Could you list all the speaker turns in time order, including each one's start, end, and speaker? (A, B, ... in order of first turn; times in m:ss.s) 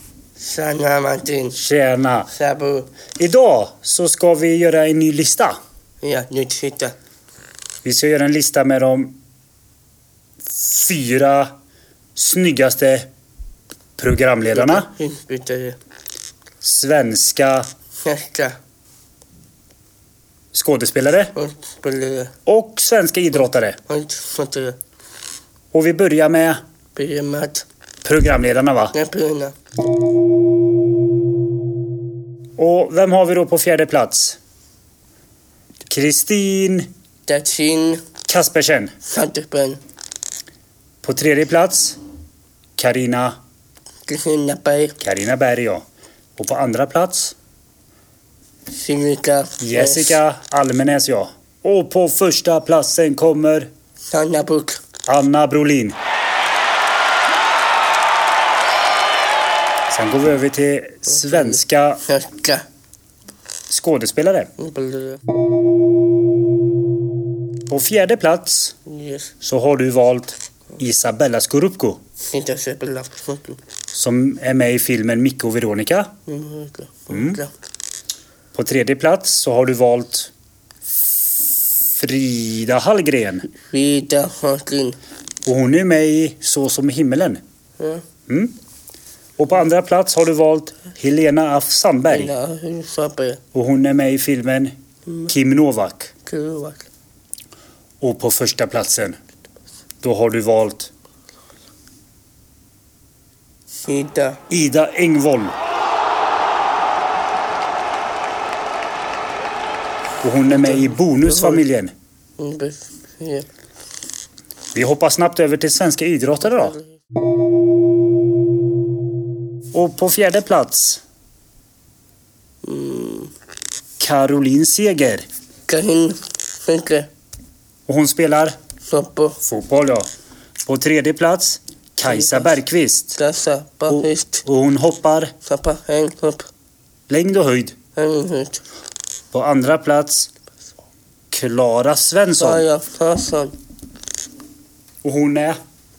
0:00.4-0:01.6 A
0:01.5-0:02.3 B
0:02.3-0:02.9 A
0:03.2-0:05.6 B
0:06.0-0:06.9 A
0:07.8-0:09.2 B
0:10.5-0:11.5 B
0:12.2-0:13.1 B
0:14.0-0:14.9 B
0:14.5-0:15.8 A
0:16.6-0:17.7 B
0:18.0-0:18.6 A
0:20.5-0:21.3 B
0:21.3-0:22.3 A
0:22.5-0:23.8 B
0:23.9-0:24.8 A
0:25.7-0:26.6 B
0:27.0-0:27.6 A
0:28.0-0:28.9 B
0:28.9-0:29.5 A
0:32.6-0:34.4 B
0:35.8-0:36.9 B
0:37.2-0:38.0 A
0:38.3-0:38.9 B
0:39.0-0:39.8 A
0:41.0-0:42.0 B
0:42.8-0:43.4 B
0:44.1-0:45.0 A
0:45.0-0:45.8 B
0:46.4-0:47.3 B
0:48.7-0:50.2 A
0:49.6-0:53.7 B
0:54.1-0:54.8 A
0:55.1-0:56.0 B
0:59.9-1:02.0 B
1:01.1-1:02.6 A
1:03.7-1:04.5 B
1:04.6-1:05.2 A
1:07.7-1:08.8 B
1:08.9-1:09.3 A
1:09.4-1:12.0 B
1:12.3-1:13.6 A
1:13.9-1:16.1 B
1:16.3-1:17.5 A
1:17.1-1:17.4 B
1:18.5-1:20.3 B
1:21.8-1:23.5 B
1:23.5-1:25.0 A
1:25.4-1:27.4 B
1:28.3-1:28.6 B
1:29.4-1:32.3 B
1:32.1-1:33.4 A
1:33.5-1:34.7 B
1:35.3-1:36.1 B
1:36.2-1:36.8 A
1:38.0-1:39.2 B
1:40.0-1:40.9 B
1:43.8-1:44.4 A
1:44.5-1:45.5 B
1:50.2-1:51.9 B
1:50.7-1:51.6 A
1:52.4-1:53.5 A
1:54.7-1:56.8 B
1:56.5-1:56.8 A
1:59.7-2:01.0 B
2:02.6-2:03.3 A
2:04.0-2:05.2 B
2:05.7-2:07.1 A
2:07.9-2:08.6 B
2:08.8-2:09.4 A
2:09.4-2:10.1 B
2:10.6-2:13.2 B
2:12.0-2:12.5 A
2:13.2-2:14.4 A
2:13.9-2:15.3 B
2:15.4-2:16.5 A
2:17.1-2:17.7 B
2:18.0-2:18.6 A
2:19.3-2:20.3 B
2:21.3-2:22.6 B
2:22.4-2:23.6 A
2:25.0-2:25.6 B